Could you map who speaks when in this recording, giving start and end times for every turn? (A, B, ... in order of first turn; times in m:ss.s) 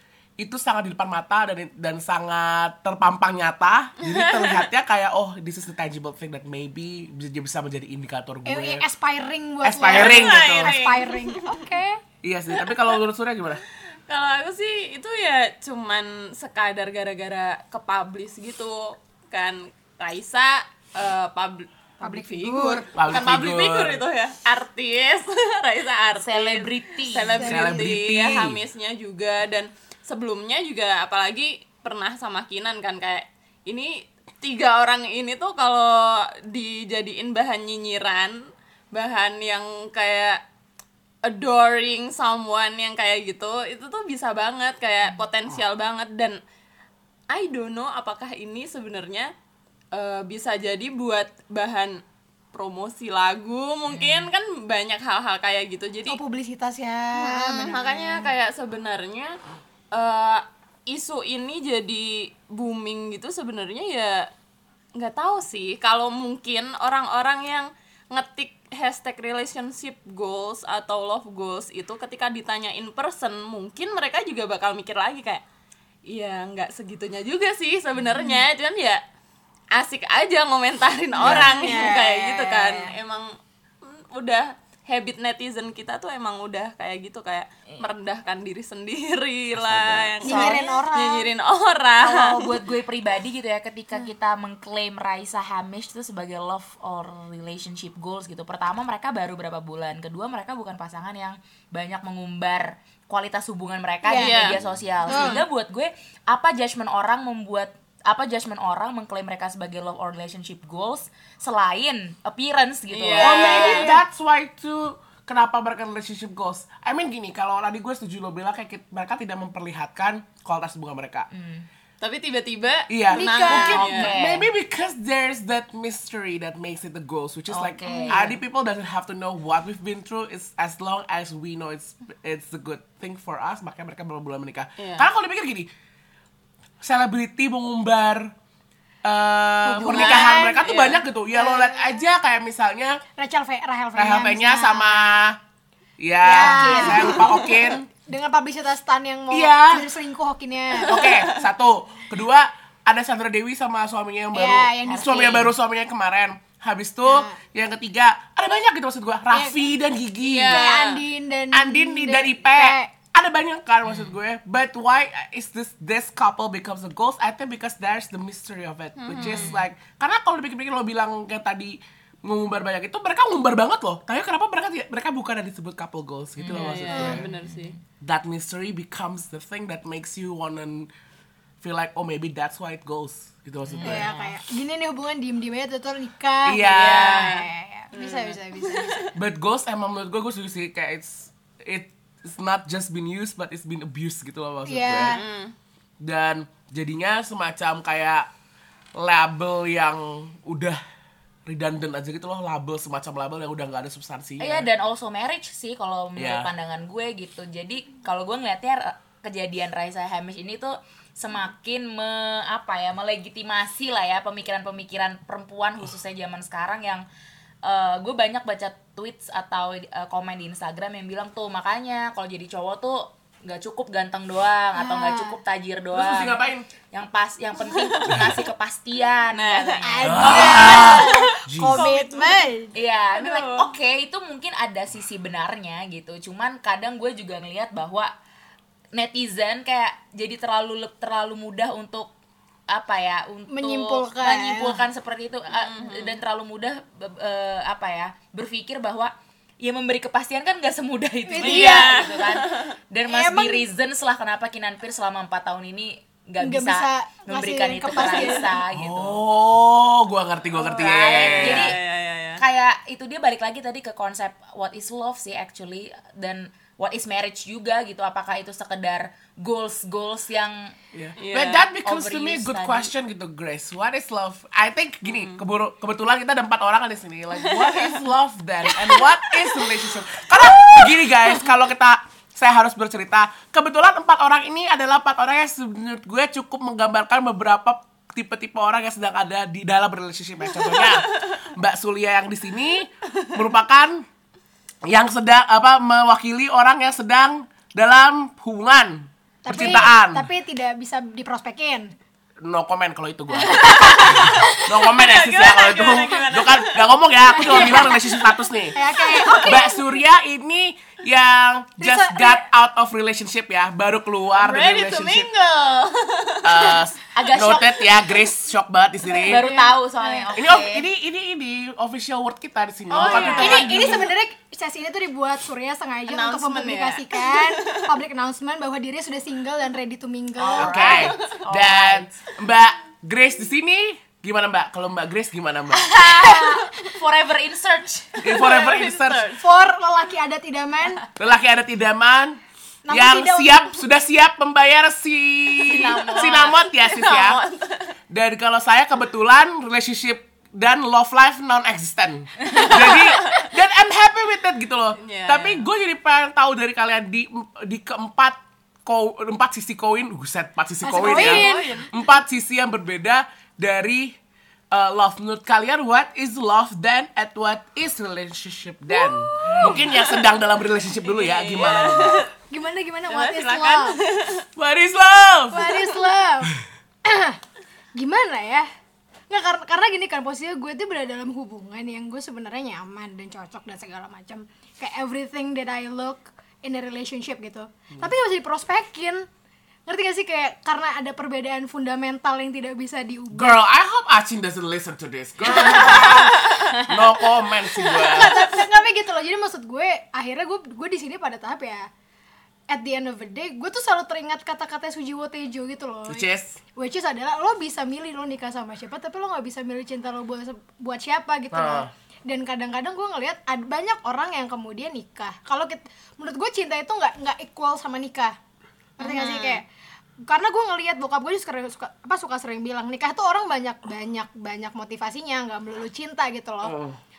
0:00.4-0:08.8 A
0:04.1-0:04.6 B
0:08.4-0:12.0 C
0:09.6-0:10.8 A
0:09.9-0:11.6 B
0:12.2-0:13.6 A
0:14.1-0:38.4 B
0:22.0-0:22.9 C
0:22.9-0:24.0 A
0:26.2-0:27.4 D
0:27.3-0:28.0 C
0:27.4-0:28.6 A
0:38.9-0:40.4 B
0:41.2-0:46.4 B
0:47.3-0:49.3 B
0:49.9-0:52.0 B
0:52.5-0:56.2 B
0:53.9-0:54.3 D
0:56.1-0:58.3 C
0:57.1-0:59.4 B
0:59.9-1:04.3 B
1:05.0-1:15.4 B
1:16.1-1:19.0 B
1:18.2-1:18.4 C
1:19.7-1:23.3 B
1:21.2-1:23.0 C
1:21.2-1:21.7 A
1:23.8-1:32.4 B
1:29.5-1:30.5 A
1:30.2-1:31.3 C
1:32.0-1:53.9 D
1:44.0-1:45.4 C
1:44.1-1:44.6 B
1:52.9-1:53.9 B
1:53.2-2:01.3 A
1:53.2-1:54.0 C
2:01.3-2:01.6 D
2:02.0-2:04.1 B
2:02.9-2:15.7 A
2:03.1-2:04.4 C
2:03.7-2:04.5 D
2:07.5-2:08.3 D
2:14.8-2:15.1 B
2:16.8-2:18.3 A
2:19.0-2:23.0 A
2:19.6-2:20.6 C
2:19.8-2:21.0 B
2:21.3-2:22.0 C
2:23.2-2:25.1 C
2:23.9-2:25.4 A
2:26.0-2:27.8 A
2:26.2-2:31.1 C
2:26.4-2:27.2 D
2:29.3-2:29.9 A
2:30.8-2:40.7 A
2:34.3-2:35.5 C
2:35.0-2:35.2 D
2:37.0-2:37.4 C
2:39.3-2:39.7 C
2:40.2-2:41.0 B
2:40.5-2:42.9 C
2:41.5-2:57.2 A
2:49.0-2:49.5 B
2:49.2-2:49.6 D
2:56.4-2:57.7 D
2:56.4-2:57.7 B
2:56.9-2:57.2 C
2:58.0-3:00.9 A
3:01.6-3:04.1 A
3:03.7-3:04.4 D
3:03.8-3:09.1 C
3:06.4-3:07.3 A
3:06.8-3:07.2 D
3:07.0-3:09.1 B
3:09.1-3:15.2 A
3:14.7-3:15.2 C
3:15.0-3:15.5 B
3:16.0-3:18.3 A
3:19.0-3:20.8 A
3:21.5-3:24.7 A
3:24.4-3:37.0 D
3:26.2-3:26.5 A
3:37.6-3:46.4 D
3:44.8-3:45.4 C
3:45.9-3:46.6 A
3:46.9-3:50.8 D
3:48.1-3:48.4 A
3:49.3-3:52.5 B
3:49.8-3:52.7 C
3:50.0-3:51.9 A
3:52.7-3:58.1 D
3:53.2-3:53.7 B
3:58.9-4:02.1 D
4:02.7-4:19.2 D
4:03.5-4:04.8 C
4:05.5-4:06.2 B
4:11.3-4:12.1 C
4:11.4-4:12.7 B
4:13.1-4:13.7 C
4:16.4-4:18.6 C
4:18.0-4:18.3 B
4:18.7-4:21.8 A
4:20.6-4:21.8 D
4:20.7-4:22.4 B
4:22.4-4:30.7 D
4:30.9-4:54.0 A
4:31.2-4:31.7 B
4:31.8-4:32.9 D
4:35.1-4:35.4 B
4:37.4-4:38.0 B
4:38.7-4:39.8 B
4:50.6-4:51.2 B
4:54.9-5:00.3 A
4:59.4-5:01.9 C
5:02.4-5:15.3 A
5:03.4-5:04.6 C
5:03.5-5:09.7 B
5:07.2-5:08.1 C
5:08.7-5:09.8 C
5:11.8-5:12.4 C
5:14.4-5:16.8 B
5:16.4-5:19.5 A
5:17.1-5:17.9 D
5:19.0-5:20.3 C
5:19.2-5:20.8 D
5:20.3-5:24.0 A
5:22.9-5:24.0 B
5:22.9-5:24.1 D
5:23.0-5:31.0 C
5:26.1-5:27.8 B
5:30.4-5:32.1 D
5:30.5-5:35.9 A
5:30.9-5:31.4 B
5:35.7-5:38.3 D
5:36.3-5:36.6 C
5:38.2-5:39.3 A
5:38.2-5:39.4 B
5:39.4-5:41.0 C
5:41.2-5:47.4 A
5:42.9-5:43.6 C
5:45.6-5:46.6 D
5:46.7-5:47.9 B
5:48.1-6:04.2 A
5:52.7-5:53.4 B
5:55.0-5:55.6 B
6:00.8-6:01.8 C
6:00.9-6:01.9 B
6:04.7-6:12.3 A
6:09.4-6:09.8 D
6:09.5-6:10.4 B
6:11.0-6:12.3 B
6:11.6-6:14.0 C
6:13.1-6:14.4 B
6:14.6-6:15.9 A
6:15.5-6:16.5 C
6:17.0-6:17.4 C
6:17.9-6:18.7 C
6:19.3-6:29.3 C
6:29.9-6:33.5 C
6:33.3-6:38.4 A
6:35.6-6:36.3 C
6:35.6-6:37.0 B
6:37.8-6:38.4 B
6:37.8-6:41.8 C
6:42.7-6:58.4 C
6:46.1-6:46.6 A
6:51.5-6:51.9 A
6:59.0-6:59.6 B
6:59.0-6:59.6 C
7:00.2-7:06.8 C
7:06.6-7:07.0 A